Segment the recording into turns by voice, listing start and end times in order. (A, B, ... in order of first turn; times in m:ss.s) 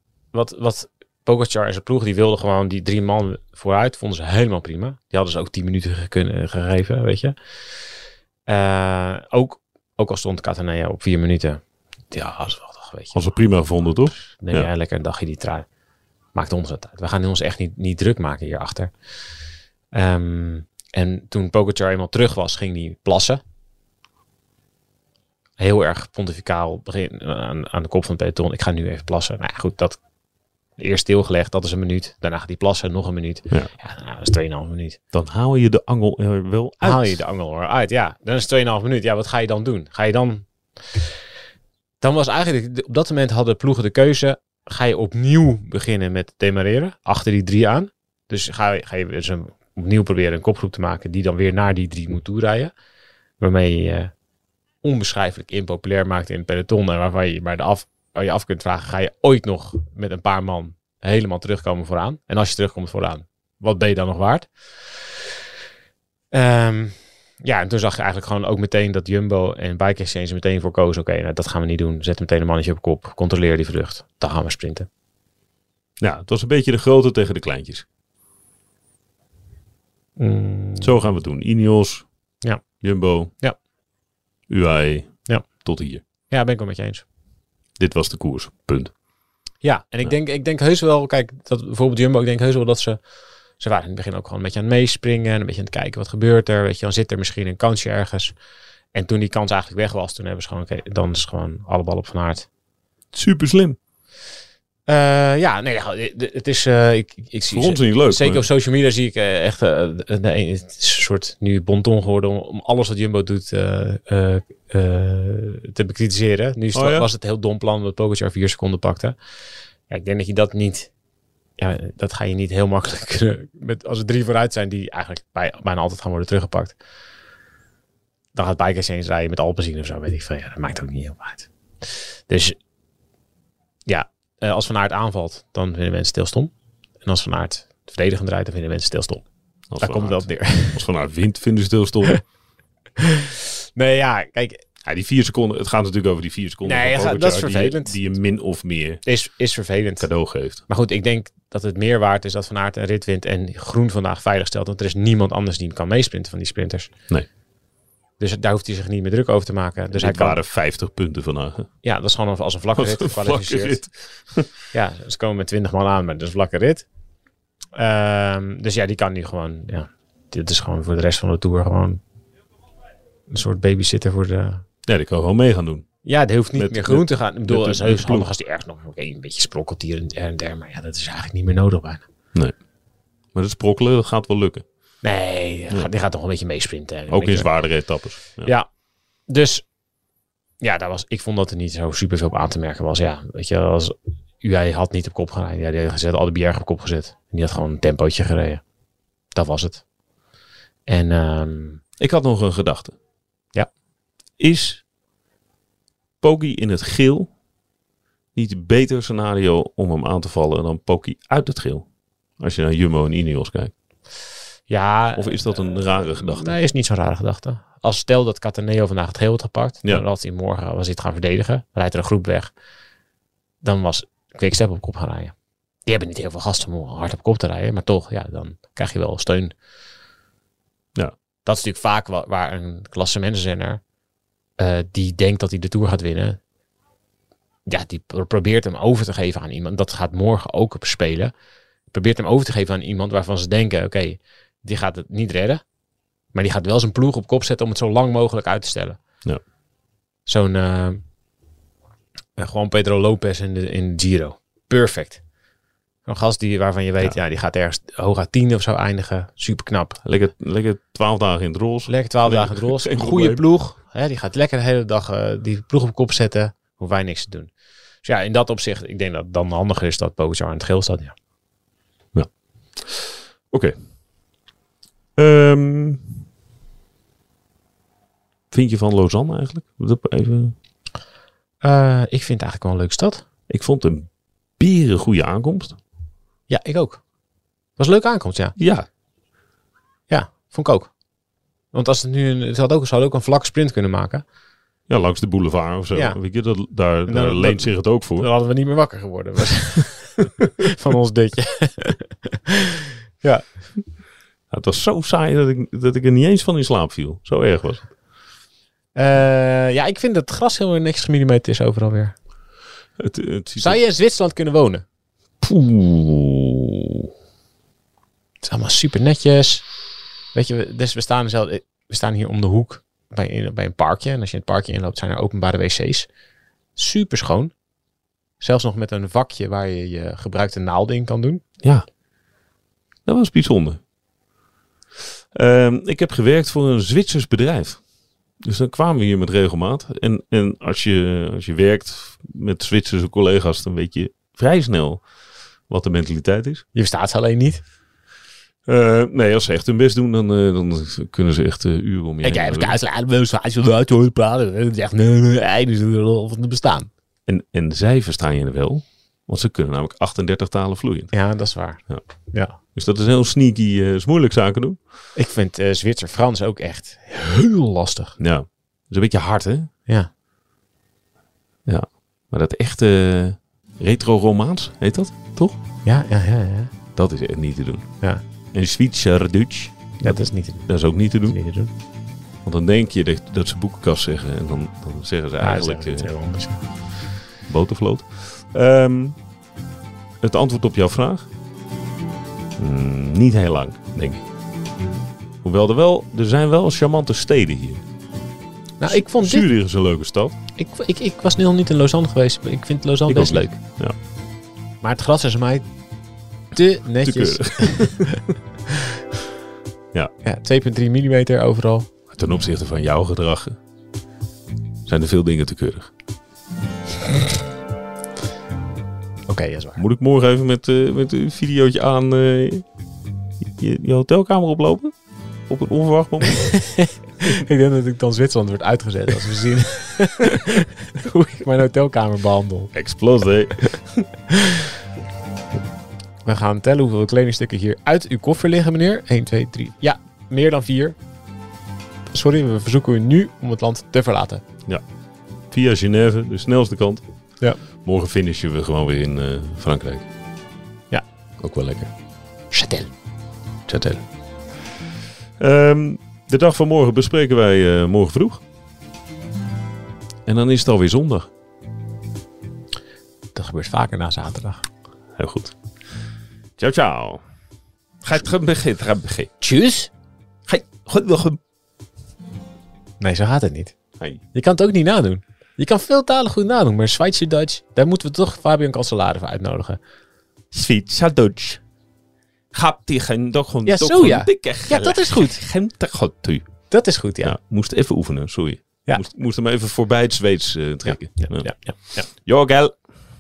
0:00.3-0:07.4 A
0:08.5-0:13.3 A
0:13.1-0:14.7 B
0:14.2-0:15.7 A
0:16.3-0:18.9 A
0:19.9-0:23.4 A
0:25.6-0:30.0 A
0:30.8-0:35.0 A
0:35.1-0:37.2 B
0:36.8-0:41.1 A
0:42.0-0:52.7 A
0:53.4-0:54.1 A
0:54.8-1:04.5 A
1:06.3-1:14.9 A
1:16.0-1:17.8 B
1:20.2-1:21.0 A
1:20.8-1:22.1 B
1:22.8-1:23.3 B
1:24.5-1:26.0 B
1:26.3-1:27.0 A
1:27.8-1:28.9 B
1:29.6-1:33.0 A
1:33.6-1:38.4 A
1:38.9-1:42.5 A
1:43.1-1:43.8 B
1:44.9-1:59.2 A
1:47.5-1:48.4 B
1:56.8-1:57.1 B
1:59.9-2:00.9 A
2:01.6-2:06.8 A
2:08.3-2:12.6 A
2:13.9-2:16.5 A
2:17.0-2:19.2 A
2:19.7-2:22.2 B
2:19.8-2:20.9 A
2:23.0-2:24.6 A
2:24.9-2:29.0 B
2:26.6-2:28.0 A
2:29.0-2:36.9 A
2:30.0-2:30.6 B
2:38.2-2:40.4 A
2:40.0-2:41.7 B
2:41.8-2:43.8 A
2:42.8-2:44.6 B
2:44.7-2:46.9 A
2:47.7-2:52.0 A
2:53.3-2:54.6 A
2:54.9-2:55.8 B
2:56.0-3:02.1 A
2:56.5-2:58.3 B
3:03.4-3:04.6 B
3:05.0-3:07.5 A
3:07.1-3:08.5 B
3:08.4-3:08.7 A
3:09.3-3:09.6 A
3:10.6-3:18.6 A
3:19.3-3:19.8 A
3:20.9-3:21.8 A
3:22.0-3:23.0 B
3:24.4-3:24.8 B
3:26.2-3:27.3 B
3:28.4-3:31.8 B
3:32.4-3:33.7 B
3:34.7-3:42.5 A
3:35.2-3:36.6 B
3:43.6-3:45.3 A
3:45.9-3:49.5 A
3:51.4-3:53.8 A
3:54.6-3:56.4 A
3:57.7-4:01.3 A
4:01.9-4:05.6 A
4:06.3-4:09.0 A
4:10.3-4:11.0 A
4:12.4-4:15.2 A
4:16.0-4:20.0 A
4:20.0-4:23.4 B
4:21.9-4:27.5 A
4:28.0-4:31.2 A
4:32.2-4:33.7 B
4:35.2-4:36.1 B
4:38.5-4:40.5 B
4:41.6-4:43.2 A
4:43.5-4:44.1 B
4:44.6-4:45.8 B
4:46.5-4:47.0 A
4:47.8-4:48.6 A
4:48.6-4:48.9 B
4:50.1-4:50.9 A
4:51.7-4:54.2 A
4:54.9-4:58.3 B
4:55.9-4:56.2 A
4:56.8-5:02.5 A
5:03.2-5:03.6 A
5:04.5-5:07.9 B
5:09.0-5:12.2 A
5:13.0-5:13.8 B
5:13.6-5:14.8 A
5:15.4-5:17.0 B
5:18.4-5:19.7 A
5:20.3-5:26.1 A
5:26.8-5:27.5 A
5:28.4-5:31.4 A
5:33.1-5:33.8 B
5:35.4-5:37.8 B
5:38.4-5:45.0 B
5:45.7-5:46.6 B
5:46.7-5:47.6 A
5:48.7-5:52.8 B
5:52.2-5:56.9 A
5:57.3-6:02.0 B
6:01.1-6:02.6 A
6:02.6-6:04.8 B
6:05.2-6:08.2 A
6:08.2-6:09.7 B
6:11.7-6:15.6 B
6:15.8-6:16.7 A
6:17.0-6:17.9 B
6:18.5-6:21.4 B
6:20.0-6:21.7 A
6:22.4-6:26.1 B
6:25.4-6:26.6 A
6:27.5-6:29.2 B
6:30.2-6:31.3 B
6:32.6-6:34.2 B
6:35.4-6:37.8 B
6:38.8-6:39.5 A
6:38.9-6:40.4 B
6:40.6-6:43.6 A
6:43.1-6:44.0 B
6:44.8-6:45.7 A
6:46.5-6:48.7 A
6:47.0-6:48.2 B
6:50.2-6:51.9 A
6:52.1-6:53.6 B
6:54.9-6:55.9 B
6:59.3-6:59.8 A
6:59.8-7:02.6 B
7:03.5-7:04.9 B
7:05.5-7:06.6 B
7:06.4-7:12.7 A
7:12.7-7:14.1 B
7:14.3-7:14.7 A
7:16.2-7:21.0 A
7:22.1-7:24.4 A
7:25.5-7:27.0 B
7:27.8-7:30.0 B
7:31.4-7:31.9 B
7:32.5-7:32.9 A
7:33.7-7:34.0 B
7:35.4-7:38.4 B
7:40.3-7:41.3 B
7:43.3-7:44.6 A
7:45.2-7:45.5 B
7:46.6-7:47.2 B
7:48.0-7:49.3 B
7:49.4-7:49.9 A
7:50.5-7:51.4 B
7:53.0-7:53.8 A
7:54.3-7:59.8 A
8:00.5-8:01.6 B
8:02.5-8:06.4 B
8:03.6-8:05.4 A
8:06.7-8:07.4 A
8:07.2-8:12.7 B
8:10.8-8:12.1 A